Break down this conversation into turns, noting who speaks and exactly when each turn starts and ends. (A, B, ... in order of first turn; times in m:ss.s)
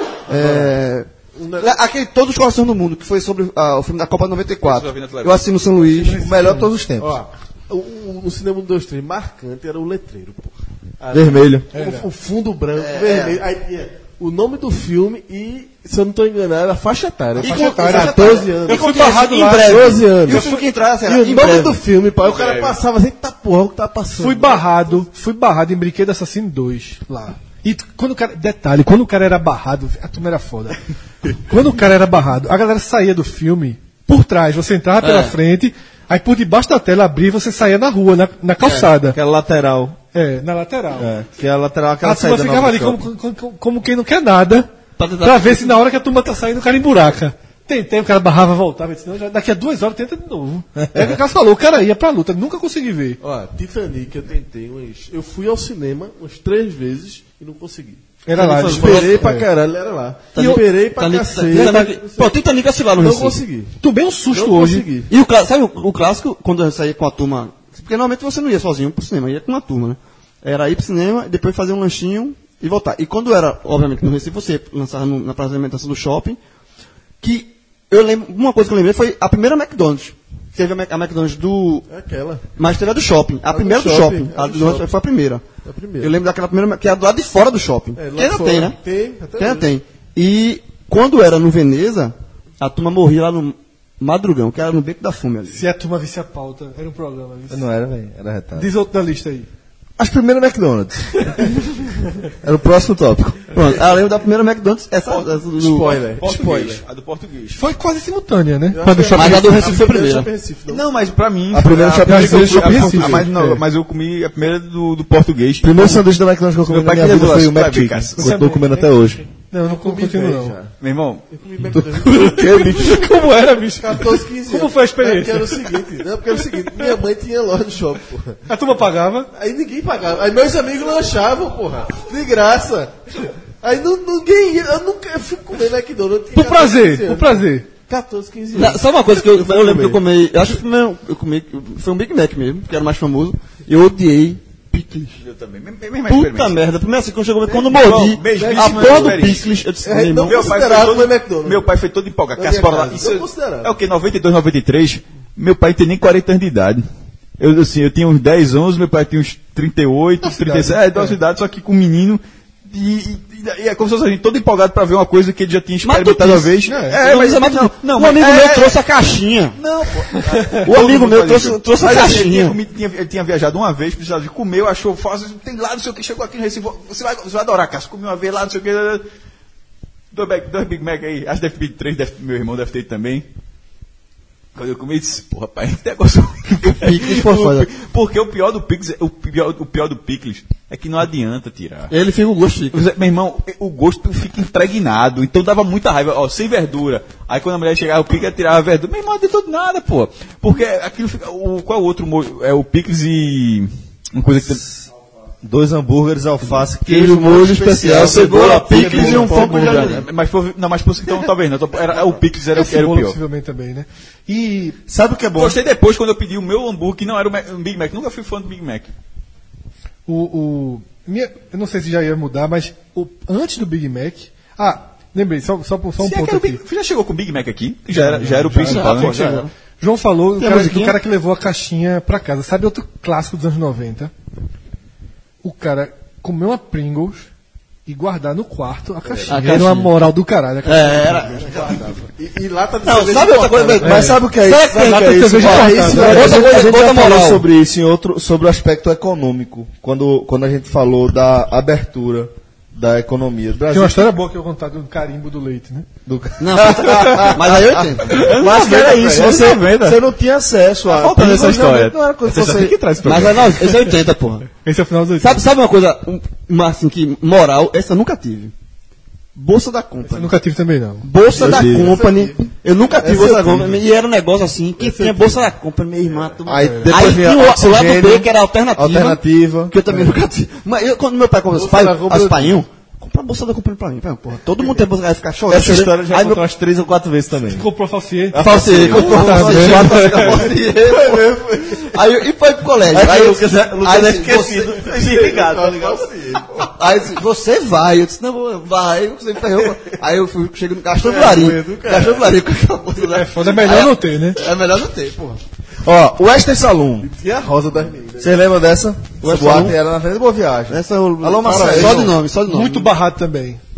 0:00.3-0:06.2 A
0:00.3-0:00.8 B
0:01.4-0:01.8 B
0:04.6-0:05.4 C
0:05.9-0:06.7 D
0:06.2-0:07.2 E
0:07.0-0:25.0 B
0:11.1-0:11.7 E
0:11.7-0:12.1 D
0:12.8-0:13.4 A
0:17.4-0:21.8 A
0:17.4-0:20.6 D
0:22.2-0:22.8 C
0:24.2-0:30.8 D
0:31.3-0:39.2 D
0:35.0-0:35.4 A
0:39.0-0:40.0 E
0:40.1-0:41.2 D
0:41.0-0:43.0 E
0:42.0-0:44.7 D
0:45.0-0:45.8 A
0:45.2-0:53.2 D
0:50.8-0:51.2 E
0:53.2-1:02.4 B
0:58.2-0:59.5 D
0:58.4-0:59.3 A
1:00.3-1:03.4 A
1:00.4-1:00.6 D
1:01.5-1:02.0 D
1:02.9-1:03.7 B
1:03.8-1:04.9 D
1:04.3-1:05.1 B
1:05.1-1:16.4 A
1:17.2-1:21.9 A
1:21.9-1:22.4 B
1:22.6-1:25.4 A
1:23.5-1:24.9 B
1:25.6-1:26.2 B
1:26.0-1:28.8 A
1:28.0-1:29.7 B
1:29.4-1:35.6 A
1:35.5-1:37.7 D
1:37.5-1:38.7 E
1:38.6-1:39.5 D
1:40.0-1:41.6 E
1:42.4-1:43.5 E
1:43.5-1:46.0 A
1:45.6-1:46.8 B
1:46.2-1:47.7 C
1:47.6-1:49.6 D
1:48.7-1:50.9 B
1:49.1-1:50.3 A
1:50.7-1:56.0 C
1:51.5-1:53.3 E
1:52.0-1:53.6 D
1:55.6-1:59.2 E
1:56.6-1:58.4 C
1:58.2-2:00.6 D
1:59.6-2:00.7 B
2:00.8-2:01.3 C
2:01.3-2:02.4 B
2:01.8-2:03.1 E
2:02.0-2:05.8 D
2:03.8-2:08.4 B
2:06.6-2:06.9 D
2:08.5-2:09.3 D
2:09.3-2:20.0 B
2:16.3-2:17.7 D
2:18.5-2:25.2 A
2:25.2-2:26.6 C
2:26.1-2:30.8 A
2:27.6-2:29.5 C
2:28.4-2:28.8 D
2:28.5-2:29.1 B
2:29.8-2:31.7 B
2:30.3-2:36.8 C
2:32.4-2:33.7 B
2:37.4-2:48.8 C
2:40.2-2:41.2 D
2:45.8-2:49.6 A
2:46.7-2:47.0 D
2:49.6-2:59.0 C
2:50.3-2:50.6 D
2:50.6-2:52.6 A
3:00.1-3:03.2 C
3:04.6-3:11.9 C
3:06.6-3:07.7 A
3:11.9-3:12.8 A
3:12.7-3:24.6 C
3:25.4-3:29.8 E
3:26.7-3:30.0 A
3:27.9-3:30.0 B
3:28.0-3:33.2 C
3:32.5-3:34.8 D
3:34.9-3:35.6 E
3:35.4-3:38.9 C
3:40.1-3:46.6 D
3:46.0-3:49.4 C
3:47.9-3:49.2 D
3:48.6-3:49.5 A
3:49.8-3:54.1 D
3:50.4-3:51.0 A
3:55.4-3:57.3 D
3:57.9-4:01.4 D
3:59.3-3:59.9 A
4:00.6-4:02.0 A
4:01.4-4:04.1 B
4:02.8-4:07.4 A
4:03.8-4:14.1 E
4:03.8-4:06.4 D
4:05.5-4:06.4 B
4:13.7-4:15.9 D
4:16.1-4:23.3 E
4:16.4-4:18.2 A
4:18.0-4:20.0 C
4:20.9-4:23.7 C
4:23.0-4:24.5 A
4:24.6-4:25.4 D
4:25.2-4:28.5 A
4:29.4-4:30.3 A
4:30.1-4:31.1 D
4:31.0-4:46.4 A
4:31.3-4:32.4 B
4:31.4-4:32.0 E
4:32.9-4:33.8 B
4:34.8-4:35.5 B
4:36.4-4:39.8 E
4:36.6-4:36.9 D
4:39.9-4:40.2 B
4:41.5-4:42.6 B
4:45.5-4:47.7 E
4:47.5-4:50.4 D
4:48.3-4:50.1 E
4:48.4-4:55.0 A
4:48.7-4:49.7 C
4:50.8-4:51.9 B
4:52.9-4:54.9 E
4:54.4-4:56.6 B
4:54.9-4:56.0 C
4:56.7-5:05.4 A
5:01.0-5:02.4 B
5:03.0-5:04.4 D
5:05.8-5:07.1 E
5:07.0-5:08.4 B
5:08.2-5:12.2 E
5:09.2-5:09.8 A
5:10.7-5:12.9 A
5:11.4-5:12.2 B
5:12.5-5:13.6 D